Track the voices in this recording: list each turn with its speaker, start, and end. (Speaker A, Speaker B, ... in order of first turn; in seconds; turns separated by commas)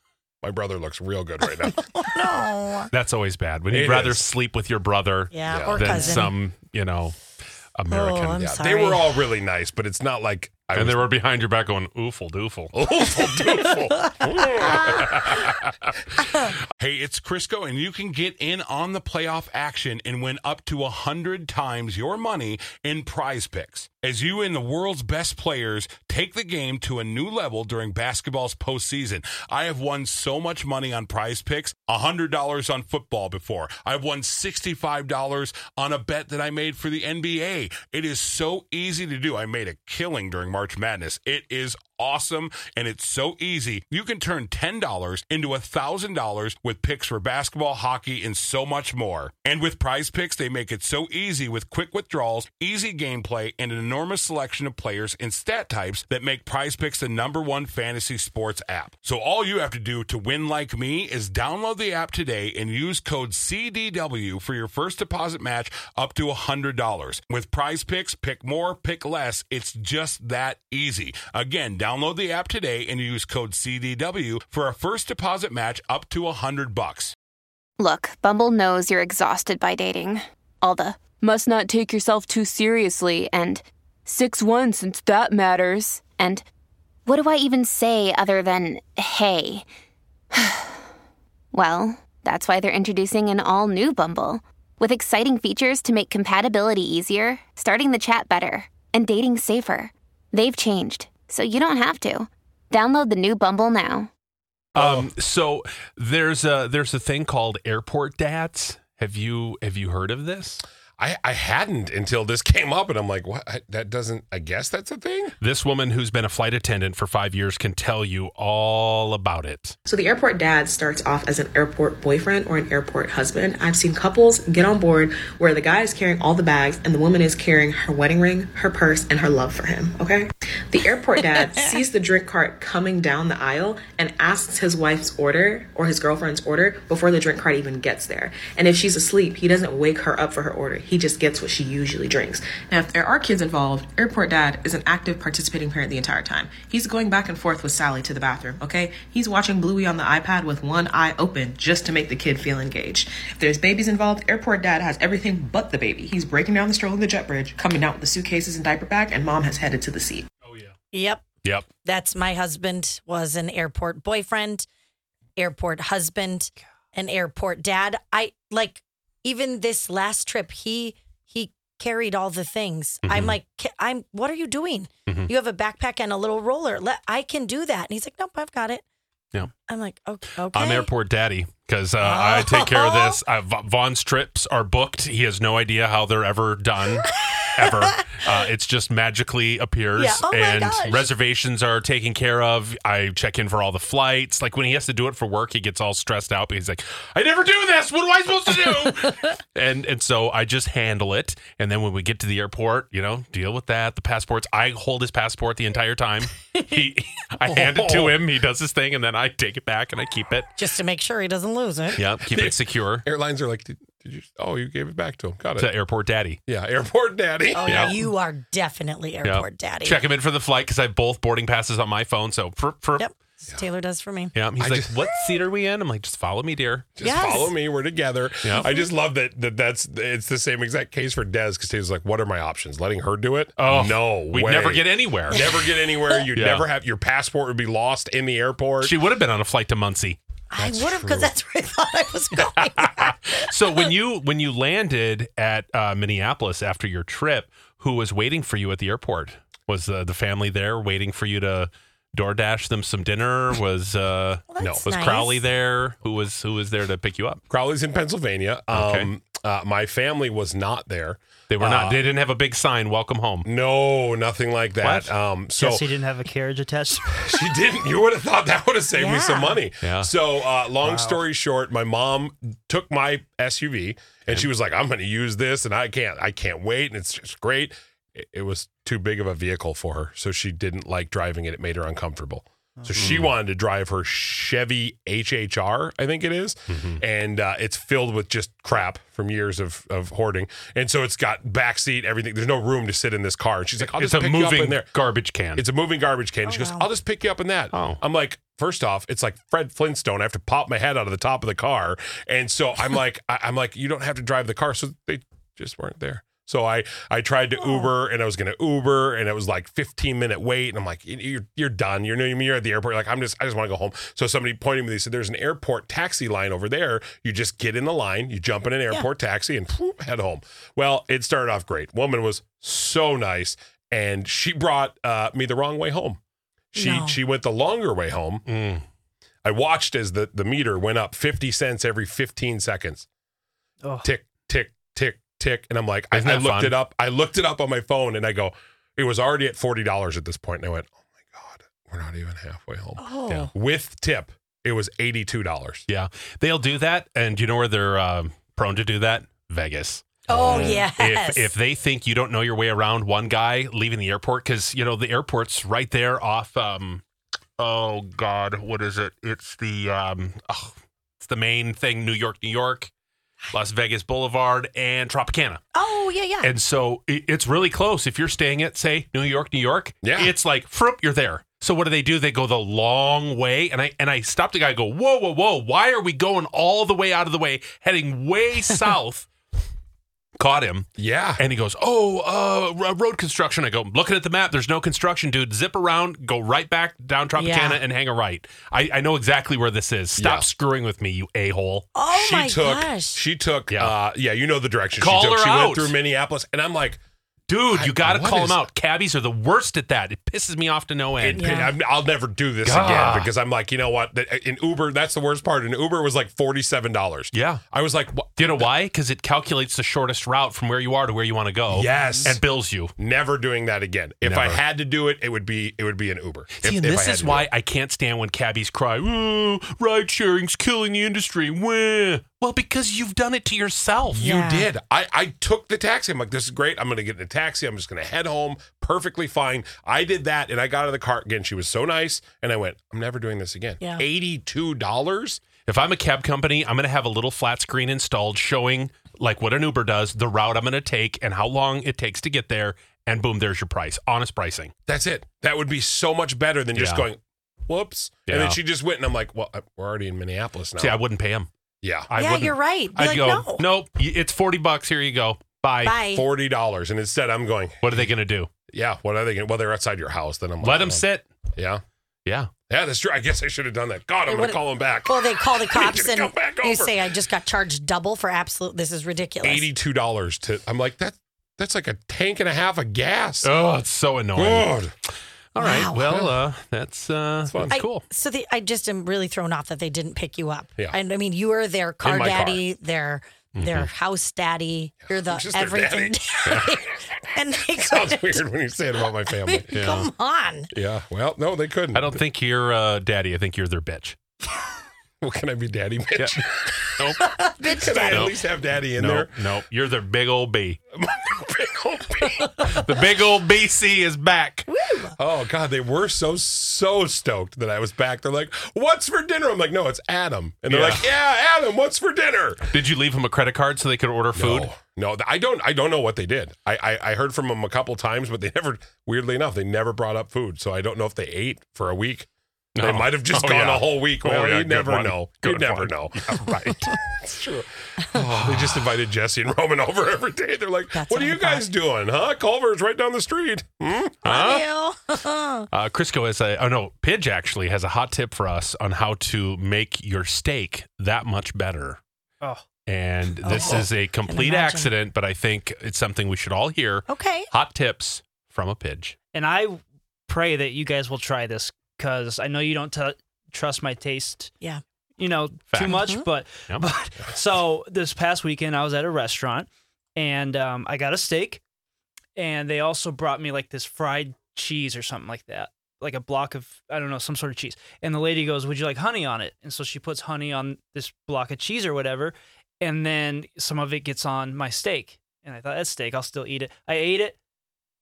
Speaker A: 0.4-2.0, Speaker B: 1.7-2.9, Speaker C: 2.9-8.5, Speaker A: 3.7-4.2, Speaker B: 5.3-6.3, Speaker A: 5.5-6.0, Speaker B: 7.9-9.0, Speaker A: 8.3-11.1, Speaker C: 10.7-12.8, Speaker A: 12.7-15.7, Speaker D: 16.8-77.1, Speaker E: 77.8-86.4, Speaker E: 87.0-89.7, Speaker E: 90.3-90.8, Speaker E: 91.5-104.1, Speaker A: 104.7-105.1, Speaker C: 104.7-110.6, Speaker A: 111.0-115.3, Speaker C: 115.4-119.7, Speaker F: 119.8-160.3, Speaker C: 160.4-160.7, Speaker B: 160.9-161.2, Speaker C: 161.4-161.7, Speaker B: 161.8-164.7, Speaker B: 165.4-178.8, Speaker C: 173.0-173.3, Speaker C: 175.1-175.3, Speaker B: 179.7-180.9, Speaker C: 180.5-210.5, Speaker B: 182.0-183.2, Speaker B: 187.0-188.3, Speaker B: 189.9-191.1, Speaker A: 207.5-208.2, Speaker B: 210.6-212.0, Speaker C: 211.9-213.0, Speaker A: 212.2-215.7, Speaker C: 215.6-216.4, Speaker A: 216.5-218.0, Speaker B: 217.5-220.0, Speaker C: 217.7-218.0, Speaker C: 219.2-223.1, Speaker B: 223.0-224.3, Speaker C: 224.3-226.9, Speaker A: 224.6-225.0, Speaker A: 227.0-239.0, Speaker B: 227.0-227.5, Speaker B: 228.6-228.9, Speaker C: 233.6-235.4, Speaker C: 236.3-236.7, Speaker C: 238.8-240.2, Speaker B: 240.5-243.8, Speaker A: 240.6-241.3, Speaker C: 242.7-257.4, Speaker B: 254.5-255.4, Speaker A: 257.5-262.0, Speaker C: 258.7-259.1, Speaker C: 261.5-263.5, Speaker A: 263.4-265.8, Speaker C: 264.8-265.1, Speaker G: 265.6-267.4, Speaker A: 267.2-294.9, Speaker B: 268.9-269.6, Speaker C: 269.8-270.1, Speaker G: 270.8-271.2, Speaker C: 282.9-283.3, Speaker C: 286.7-287.0, Speaker C: 293.8-295.6, Speaker A: 295.6-326.2, Speaker B: 296.4-296.9, Speaker C: 297.7-298.0, Speaker B: 307.6-307.9, Speaker A: 326.7-328.4, Speaker B: 326.8-327.2, Speaker C: 328.5-328.8, Speaker A: 329.4-333.1, Speaker A: 334.0-345.8, Speaker C: 336.1-336.7, Speaker B: 343.0-343.5, Speaker C: 345.9-357.0, Speaker A: 350.3-350.8, Speaker B: 350.3-351.5, Speaker C: 357.6-362.9, Speaker C: 363.5-365.6, Speaker B: 365.7-366.5, Speaker C: 366.4-379.3, Speaker A: 370.0-370.3, Speaker C: 380.4-391.9, Speaker A: 381.0-381.4, Speaker B: 387.4-387.8, Speaker A: 390.2-390.5, Speaker B: 391.9-393.2, Speaker A: 392.1-397.0, Speaker C: 393.7-393.9, Speaker C: 395.0-395.9, Speaker C: 397.5-401.6, Speaker A: 397.7-398.6, Speaker A: 401.2-408.7, Speaker B: 401.3-401.7, Speaker C: 402.6-403.3, Speaker C: 407.3-407.6, Speaker C: 408.4-412.9, Speaker A: 411.7-412.4, Speaker A: 413.0-417.5, Speaker C: 414.2-414.6, Speaker C: 416.5-424.4, Speaker A: 424.1-435.4, Speaker B: 424.2-424.7, Speaker C: 435.6-444.7, Speaker A: 444.9-451.0, Speaker C: 446.7-447.1, Speaker C: 448.3-448.6, Speaker C: 450.8-451.5, Speaker A: 451.8-452.1, Speaker C: 452.1-456.0, Speaker B: 452.1-453.6, Speaker B: 455.8-456.2, Speaker A: 456.1-458.1, Speaker C: 457.8-458.5, Speaker A: 458.7-461.0, Speaker C: 460.6-461.3, Speaker A: 461.6-461.8, Speaker C: 462.2-462.5, Speaker A: 462.7-467.1, Speaker B: 464.3-469.7, Speaker A: 469.4-473.5, Speaker C: 473.4-474.8, Speaker A: 474.4-474.9, Speaker C: 475.5-478.0, Speaker B: 475.6-476.2, Speaker A: 475.9-476.3, Speaker A: 477.5-477.8, Speaker B: 477.7-488.4, Speaker A: 482.0-482.6, Speaker C: 483.6-483.9, Speaker A: 485.1-486.8, Speaker A: 487.7-489.7, Speaker B: 489.4-490.7, Speaker C: 489.7-490.1, Speaker A: 490.7-492.2, Speaker C: 491.9-494.2, Speaker A: 495.2-499.3, Speaker C: 497.0-498.4, Speaker B: 497.2-498.3, Speaker C: 498.9-500.8, Speaker A: 501.0-502.8, Speaker C: 502.6-504.7, Speaker B: 504.7-505.1, Speaker A: 505.2-512.7, Speaker C: 510.7-511.0, Speaker C: 512.7-514.7, Speaker A: 514.3-522.3, Speaker C: 522.8-526.7, Speaker A: 522.8-534.2, Speaker C: 528.4-528.7, Speaker B: 530.9-531.6, Speaker B: 534.2-535.7, Speaker C: 534.2-534.7, Speaker C: 535.7-542.0, Speaker C: 542.9-549.1, Speaker B: 543.4-544.9, Speaker A: 543.5-543.9, Speaker B: 547.1-547.5, Speaker G: 549.3-554.5, Speaker G: 555.2-561.6, Speaker C: 555.7-556.1, Speaker B: 555.8-556.2, Speaker G: 562.4-577.4